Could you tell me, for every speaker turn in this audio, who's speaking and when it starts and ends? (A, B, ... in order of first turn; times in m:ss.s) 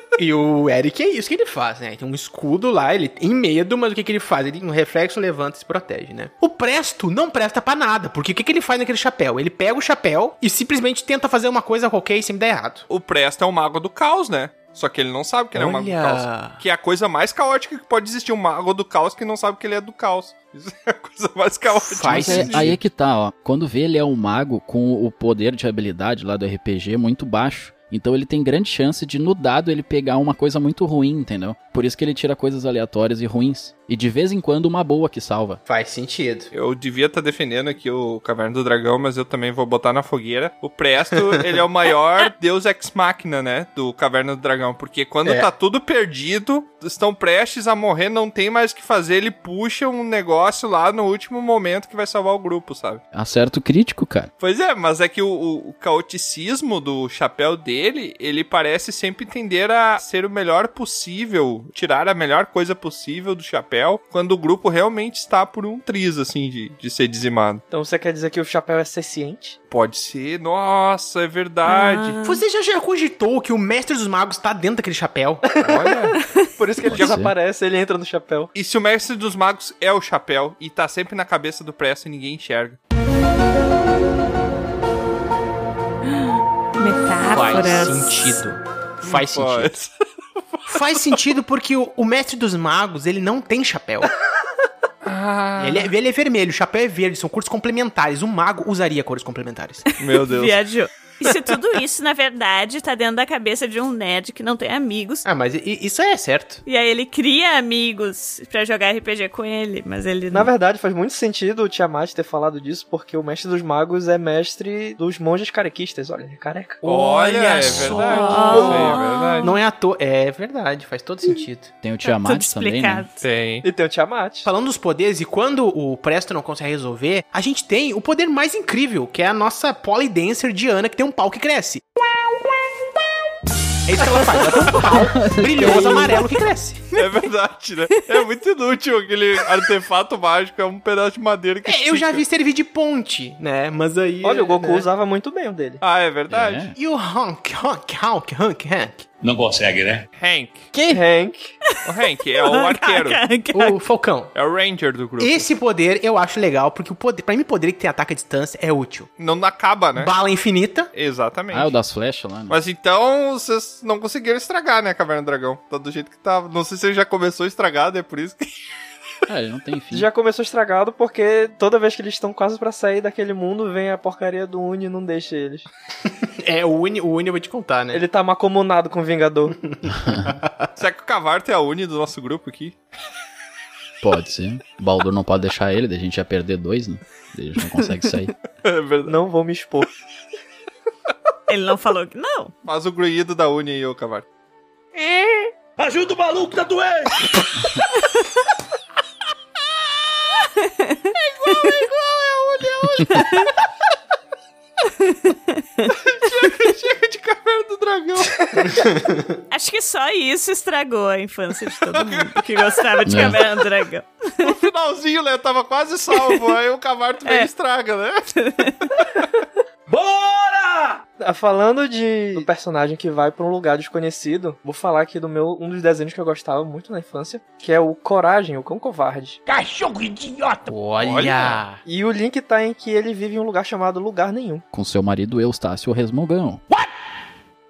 0:00.2-0:12.9 A
0:12.9-0:22.7 B
0:15.6-0:16.6 A
0:21.8-0:22.8 A
0:22.2-0:35.6 C
0:35.6-0:36.5 A
0:36.5-0:53.0 B
0:53.1-0:54.3 C
0:54.4-1:07.6 B
1:07.7-1:09.6 D
1:09.7-1:12.2 B
1:11.7-1:12.4 E
1:12.2-1:15.4 A
1:15.4-1:16.0 D
1:15.6-1:16.2 B
1:16.6-1:18.5 D
1:16.9-1:17.3 C
1:16.9-1:17.2 B
1:18.6-1:22.8 B
1:26.1-1:28.4 E
1:27.3-1:29.7 A
1:29.0-1:29.9 B
1:30.6-1:31.2 B
1:30.7-1:34.1 A
1:35.0-1:35.9 B
1:35.6-1:39.8 A
1:40.0-1:40.6 B
1:40.0-1:45.2 E
1:45.2-1:46.6 A
1:46.7-1:50.5 E
1:50.3-1:57.0 D
1:56.8-1:59.6 B
1:57.2-2:01.7 A
1:57.8-1:59.6 E
2:01.8-2:03.0 C
2:02.0-2:03.2 E
2:03.2-2:03.7 B
2:03.6-2:04.5 D
2:04.4-2:11.8 A
2:13.9-2:16.9 A
2:15.2-2:16.1 C
2:16.9-2:22.2 B
2:21.7-2:24.9 A
2:24.2-2:25.8 D
2:25.8-2:26.7 B
2:26.3-2:26.7 C
2:26.8-2:29.1 A
2:29.2-2:30.0 F
2:30.2-2:30.7 B
2:30.7-2:31.0 C
2:30.9-2:31.6 D
2:31.8-2:33.2 B
2:32.4-2:33.8 E
2:33.5-2:34.3 A
2:34.3-2:35.5 B
2:35.2-2:39.1 A
2:39.2-2:40.1 B
2:40.0-2:40.9 A
2:40.9-2:41.7 B
2:41.5-2:42.6 C
2:42.5-2:48.4 B
2:49.3-2:50.1 C
2:49.9-2:55.7 D
2:56.1-2:58.0 A
2:57.9-2:59.6 D
2:59.6-3:00.7 A
3:00.8-3:02.8 B
3:04.0-3:08.3 C
3:08.6-3:09.2 B
3:09.1-3:09.9 D
3:11.5-3:12.5 E
3:12.6-3:14.2 B
3:15.0-3:17.3 F
3:20.6-3:21.9 E
3:21.3-3:23.3 B
3:23.1-3:23.5 E
3:24.9-3:25.9 E
3:25.9-3:28.5 B
3:28.7-3:29.4 A
3:29.5-3:34.5 E
3:31.9-3:32.5 B
3:33.1-3:33.4 C
3:34.4-3:38.3 B
3:38.4-3:38.9 E
3:39.9-3:41.0 F
3:41.2-3:49.4 D
3:49.5-3:50.7 F
3:50.7-3:51.8 A
3:51.0-3:51.6 B
3:51.9-3:54.6 D
3:54.7-3:56.6 C